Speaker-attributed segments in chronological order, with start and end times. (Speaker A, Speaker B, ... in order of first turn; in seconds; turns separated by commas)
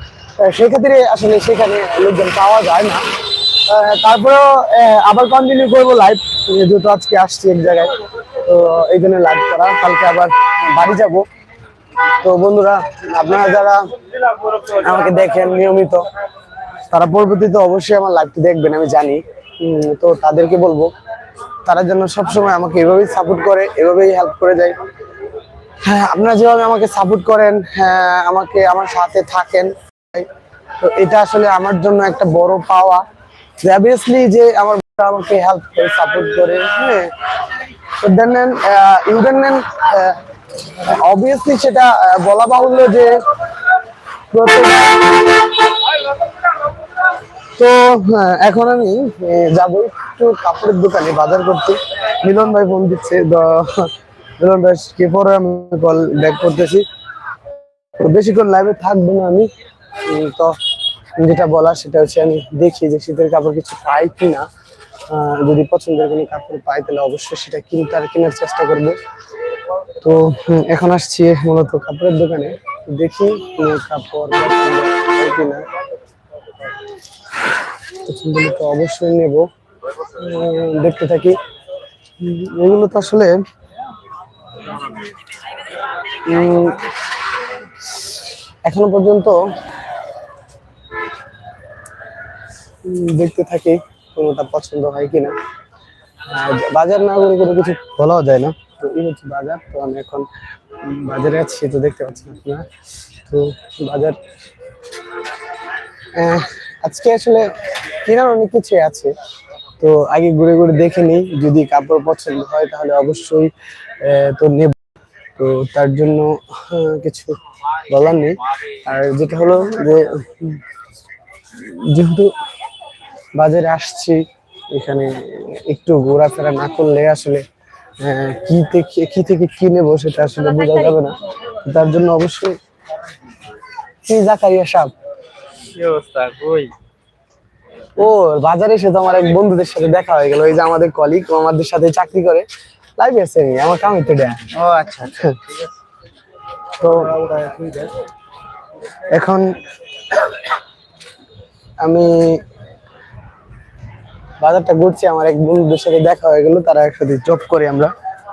Speaker A: 0.4-11.3, Speaker A: 12.2-13.8, Speaker A: 14.5-16.1, Speaker A: 16.9-20.9, Speaker A: 21.6-24.8, Speaker A: 25.8-30.3, Speaker A: 30.8-33.0, Speaker A: 33.6-37.1, Speaker A: 38.0-40.2, Speaker A: 40.7-43.2, Speaker A: 44.3-45.2, Speaker A: 47.6-56.9, Speaker A: 58.0-59.5, Speaker A: 60.0-60.6, Speaker A: 61.2-64.5, Speaker A: 65.1-69.0, Speaker A: 70.0-75.7, Speaker A: 78.0-79.5, Speaker A: 80.0-81.4, Speaker A: 82.2-83.3, Speaker A: 86.2-86.9, Speaker A: 87.9-88.1, Speaker A: 88.6-89.4, Speaker A: 92.8-95.3, Speaker A: 96.2-100.3, Speaker A: 100.8-102.7, Speaker A: 103.3-104.2, Speaker A: 106.1-109.1, Speaker A: 109.8-114.8, Speaker A: 115.4-120.6, Speaker A: 121.5-122.3, Speaker A: 123.3-127.4, Speaker A: 128.0-132.6, Speaker A: 134.0-134.9, Speaker B: 135.7-136.7, Speaker A: 138.0-145.6, Speaker B: 144.6-145.1, Speaker A: 146.8-147.2, Speaker B: 146.9-148.0, Speaker A: 149.0-150.5, Speaker A: 151.8-152.4, Speaker A: 154.4-157.9